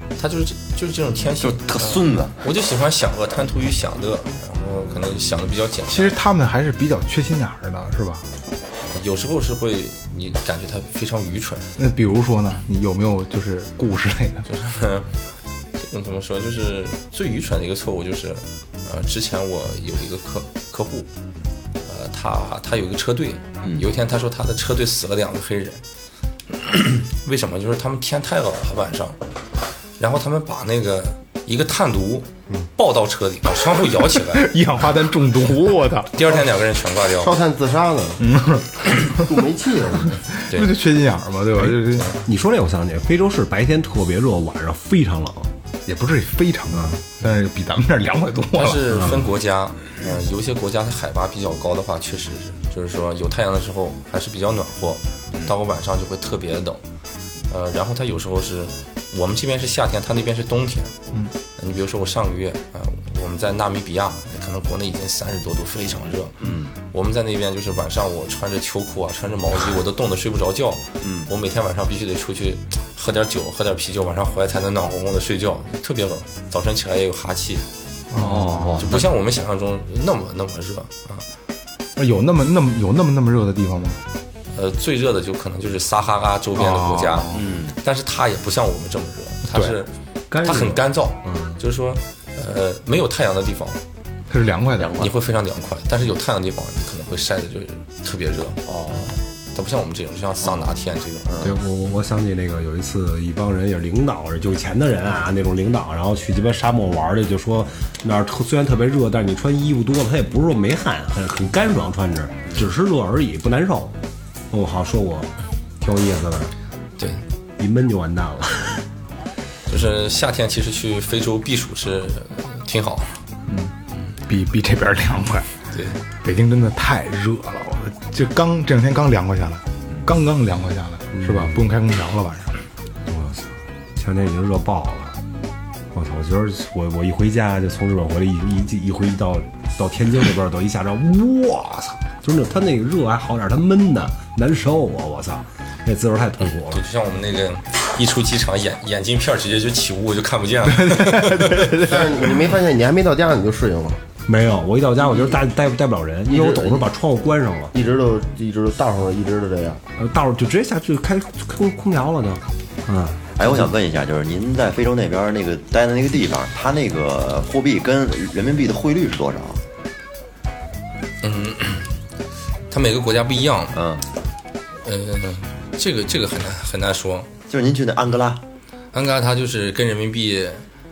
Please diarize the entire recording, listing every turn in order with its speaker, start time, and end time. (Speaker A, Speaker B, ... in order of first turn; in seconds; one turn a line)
Speaker A: 0.1-6.2
Speaker B: 1.4-2.4
Speaker C: 5.9-8.3
Speaker A: 8.9-11.7
Speaker C: 11.8-14.4
Speaker A: 14.4-15.1
Speaker A: 15.8-21.1
Speaker A: 21.8-25.8
Speaker A: 26.6-29.2
Speaker A: 30.0-34.5
Speaker C: 34.2-36.4
Speaker A: 36.1-37.3
Speaker D: 37.2-38.2
Speaker C: 38.2-39.3
Speaker D: 39.1-40.2
Speaker A: 40.5-40.7
Speaker C: 40.5-42.1
Speaker E: 41.6-45.5
Speaker C: 45.9-48.8
Speaker E: 46.7-47.0
Speaker A: 48.5-56.8
Speaker E: 48.9-49.2
Speaker A: 57.5-60.9
Speaker A: 61.6-77.7
Speaker B: 66.4-66.7
Speaker B: 71.0-71.3
Speaker C: 78.1-78.8
Speaker E: 78.2-78.7
Speaker B: 78.4-79.0
Speaker A: 78.8-81.2
Speaker C: 82.0-84.0
Speaker A: 84.5-89.9
Speaker C: 86.5-87.4
Speaker B: 87.3-87.8
Speaker E: 90.3-91.6
Speaker A: 90.4-93.8
Speaker C: 94.3-95.0
Speaker B: 94.8-95.1
Speaker A: 95.0-98.6
Speaker B: 98.7-99.1
Speaker A: 99.5-101.3
Speaker B: 100.4-100.7
Speaker B: 101.2-101.6
Speaker E: 101.4-113.9
Speaker E: 114.5-116.5
Speaker E: 117.6-118.8
Speaker A: 119.7-123.2
Speaker C: 123.5-123.7
Speaker C: 124.3-125.5
Speaker A: 125.7-126.0
Speaker C: 126.2-132.5
Speaker E: 131.2-131.6
Speaker E: 133.1-135.2
Speaker E: 135.9-146.8
Speaker A: 146.7-151.7
Speaker C: 150.6-152.3
Speaker D: 151.7-154.0
Speaker E: 154.3-157.7
Speaker D: 155.1-155.4
Speaker D: 156.3-156.9
Speaker D: 157.7-159.8
Speaker E: 160.0-163.3
Speaker B: 163.4-169.6
Speaker A: 171.2-171.9
Speaker A: 172.7-173.8
Speaker B: 173.7-174.1
Speaker A: 174.8-177.3
Speaker B: 177.5-178.4
Speaker A: 178.9-180.6